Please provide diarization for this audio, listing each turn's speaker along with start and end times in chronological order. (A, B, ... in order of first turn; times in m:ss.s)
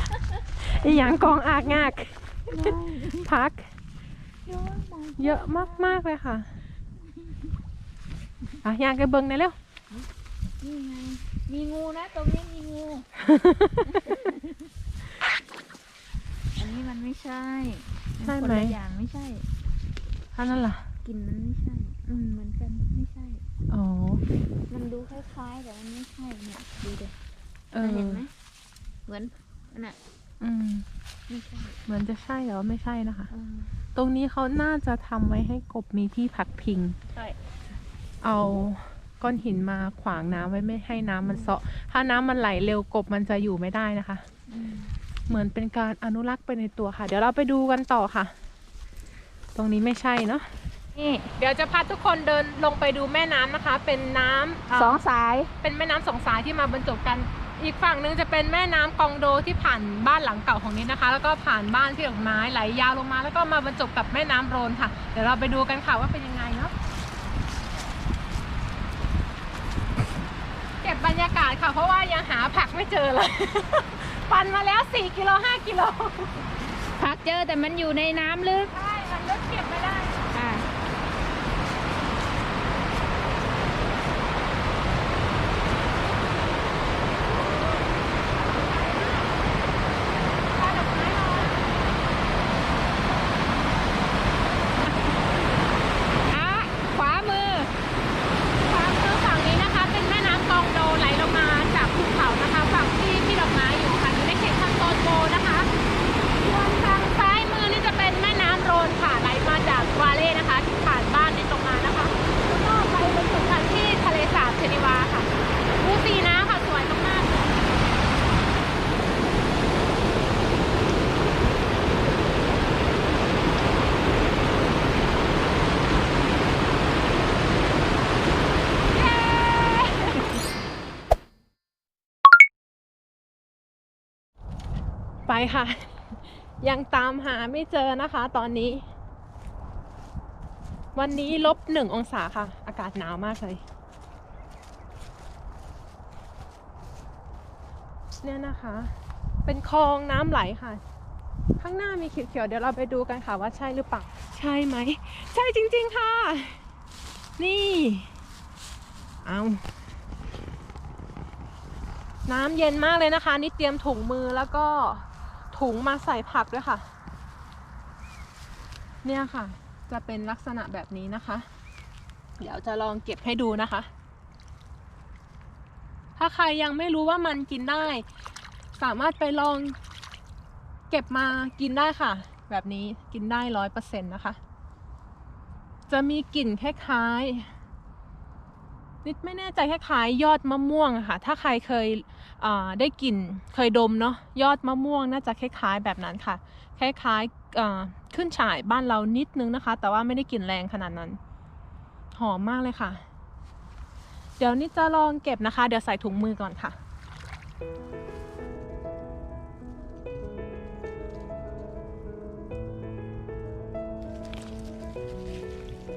0:00.6-0:03.7 A
0:00.9-0:01.4 B
0:02.5-0:03.3 B
0:04.5-0:06.0 B
0:05.2-0:06.5 A
0:07.1-0:07.5 B
0:08.6-0:09.6 A
0:10.6-0:13.1 B
0:13.2-0:14.2 A
0:13.8-0:14.6 B
0:16.6-0:19.5 B
0:18.2-0:18.8 A
0:20.4-0:20.8 A
0:21.0-0:23.4 B
0:23.7-0:24.2 A
0:24.7-0:27.2 B
0:27.7-0:28.2 A
0:27.8-0:28.3 B
0:29.1-0:30.0 B
0:30.4-0:30.9 A
0:31.3-0:31.8 B
0:31.9-0:33.3 A
0:33.3-0:33.7 B
0:34.0-0:37.0 A
0:38.2-0:44.2 A
0:44.5-0:44.9 B
0:45.3-0:48.3 A
0:49.6-0:50.5 A
0:51.0-0:51.3 B
0:51.4-0:55.0 A
0:54.7-0:55.5 B
0:55.6-1:06.7 A
1:10.8-1:16.4 A
1:17.0-1:18.7 B
1:18.7-1:20.2 A
1:20.3-1:20.7 B
1:27.4-1:27.9 A
1:28.5-1:29.3 A
1:30.5-1:31.7 A
1:36.3-1:37.7 A
1:38.6-1:45.7 A
1:46.4-1:57.5 A
2:08.9-2:10.4 A
2:15.3-2:18.9 A
2:20.9-2:23.6 A
2:28.2-2:28.9 A
2:29.4-2:30.8 A
2:31.6-2:36.6 A
2:37.4-2:38.1 A
2:39.2-2:39.6 A
2:42.3-2:46.8 A
2:49.0-2:51.5 A
2:52.4-2:53.9 A
2:56.2-2:58.0 A
2:58.8-2:59.8 A
3:00.9-3:04.4 A
3:05.9-3:07.5 A
3:09.0-3:21.2 A
3:22.1-3:23.0 A
3:24.4-3:26.8 A